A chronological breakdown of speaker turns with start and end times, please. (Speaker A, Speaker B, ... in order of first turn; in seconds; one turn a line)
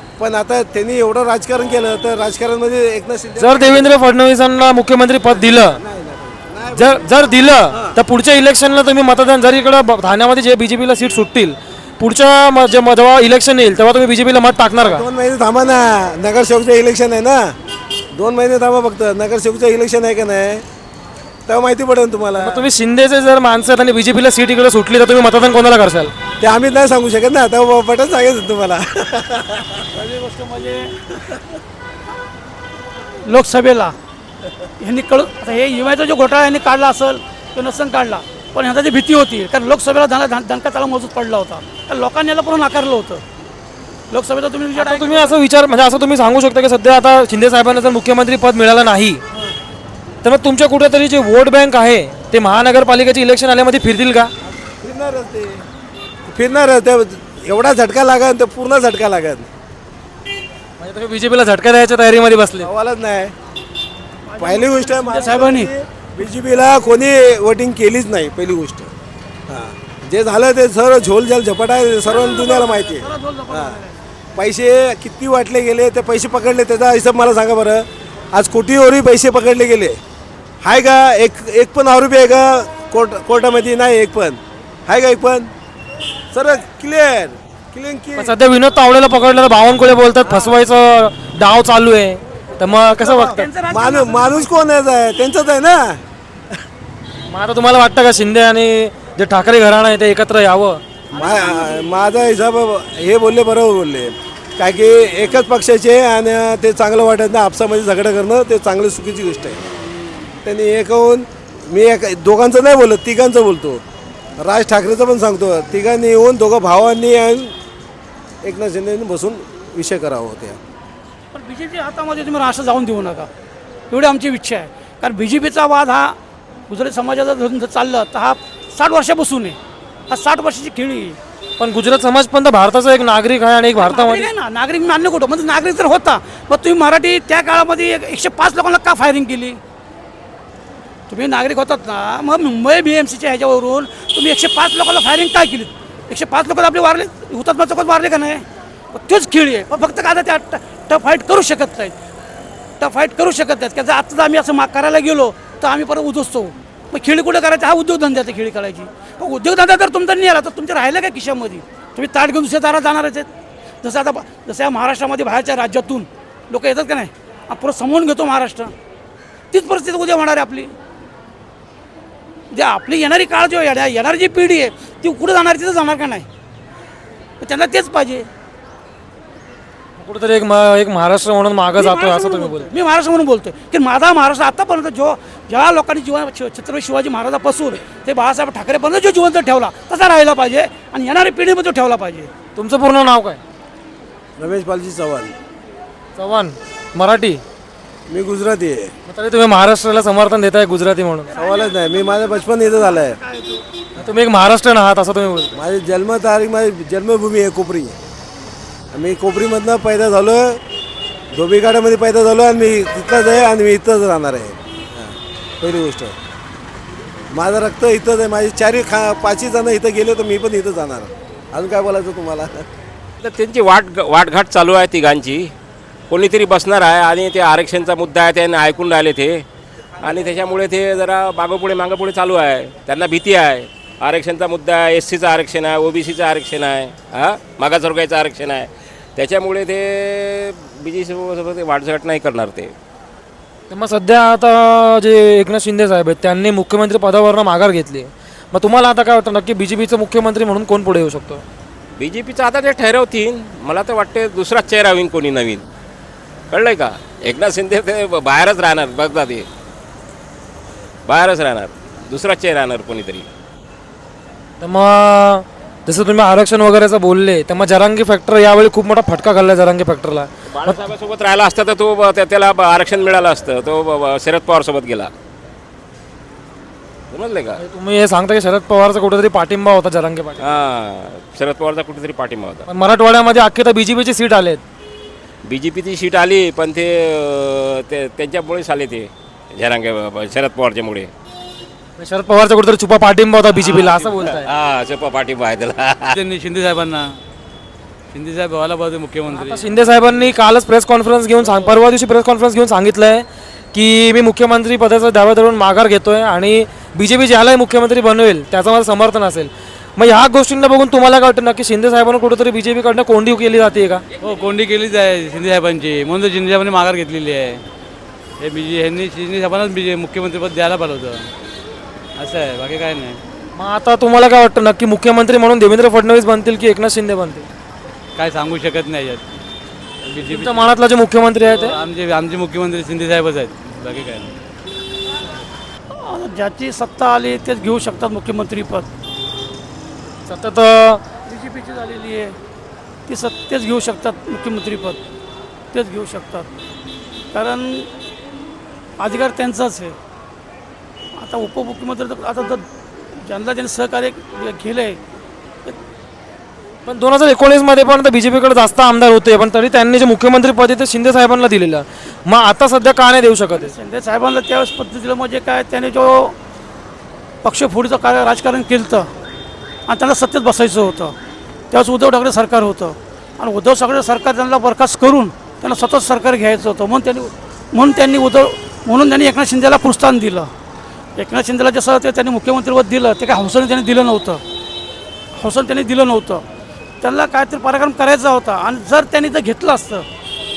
Speaker A: 0.2-3.9
Speaker B: 3.4-5.8
Speaker A: 5.3-7.0
Speaker B: 6.8-15.0
Speaker A: 7.7-8.0
Speaker A: 14.8-17.5
Speaker A: 18.1-20.6
Speaker A: 21.5-22.7
Speaker B: 22.4-26.1
Speaker A: 26.4-29.8
Speaker C: 29.9-31.0
Speaker C: 33.2-33.9
Speaker C: 34.8-43.2
Speaker C: 44.1-45.4
Speaker B: 44.8-49.2
Speaker B: 50.2-54.3
Speaker A: 54.6-55.6
Speaker A: 56.2-59.5
Speaker B: 60.8-62.7
Speaker A: 62.6-63.3
Speaker C: 64.2-65.7
Speaker A: 64.4-68.9
Speaker A: 69.5-73.8
Speaker C: 72.0-74.0
Speaker A: 74.3-80.0
Speaker A: 80.6-85.5
Speaker A: 86.3-88.3
Speaker B: 88.2-93.5
Speaker A: 90.2-90.5
Speaker C: 93.0-94.5
Speaker A: 93.7-96.0
Speaker B: 97.3-100.8
Speaker C: 101.1-101.8
Speaker A: 101.1-109.6
Speaker A: 110.4-113.8
Speaker A: 114.4-117.5
Speaker A: 118.4-120.6
Speaker C: 121.3-123.3
Speaker C: 123.9-126.2
Speaker C: 126.7-129.6
Speaker C: 130.1-131.2
Speaker B: 131.6-134.3
Speaker C: 133.8-139.6
Speaker C: 141.1-151.9
Speaker C: 152.8-163.3
Speaker C: 163.8-168.7
Speaker C: 169.5-170.7
Speaker C: 172.5-176.2
Speaker C: 177.4-178.2
Speaker B: 180.0-182.7
Speaker C: 181.7-192.3
Speaker B: 192.6-193.4
Speaker A: 194.4-195.3
Speaker B: 196.2-197.4
Speaker A: 198.1-198.9
Speaker B: 199.1-201.3
Speaker C: 201.3-203.6
Speaker A: 201.3-203.2
Speaker B: 204.0-205.5
Speaker A: 205.5-207.9
Speaker A: 208.9-210.6
Speaker A: 211.3-216.1
Speaker A: 217.3-222.6
Speaker D: 223.2-225.5
Speaker D: 226.1-229.4
Speaker D: 230.0-242.7
Speaker B: 243.7-251.4
Speaker D: 252.0-255.6
Speaker D: 256.5-259.4
Speaker D: 261.1-263.3
Speaker B: 264.6-270.8
Speaker D: 270.5-275.1
Speaker D: 277.1-277.6
Speaker B: 277.6-280.5
Speaker D: 280.4-282.6
Speaker B: 282.7-284.6
Speaker D: 285.4-291.1
Speaker B: 292.0-294.5
Speaker D: 293.7-296.2
Speaker E: 296.1-297.2
Speaker E: 298.1-299.6
Speaker B: 299.3-314.0
Speaker E: 314.2-317.6
Speaker E: 318.4-321.3
Speaker E: 322.2-323.2
Speaker B: 323.6-327.5
Speaker E: 328.1-329.2
Speaker E: 330.1-330.6
Speaker B: 330.2-331.8
Speaker E: 331.4-334.3
Speaker C: 335.9-338.9
Speaker B: 340.2-341.0
Speaker C: 341.3-342.4
Speaker C: 343.1-345.0
Speaker C: 345.7-346.5
Speaker C: 347.3-347.9
Speaker C: 349.0-349.9
Speaker C: 351.2-355.0
Speaker B: 356.9-363.7
Speaker C: 363.5-366.4
Speaker C: 367.4-369.1
Speaker C: 369.9-371.1
Speaker C: 371.7-380.5
Speaker C: 381.2-384.4
Speaker C: 385.4-386.4
Speaker C: 387.0-390.0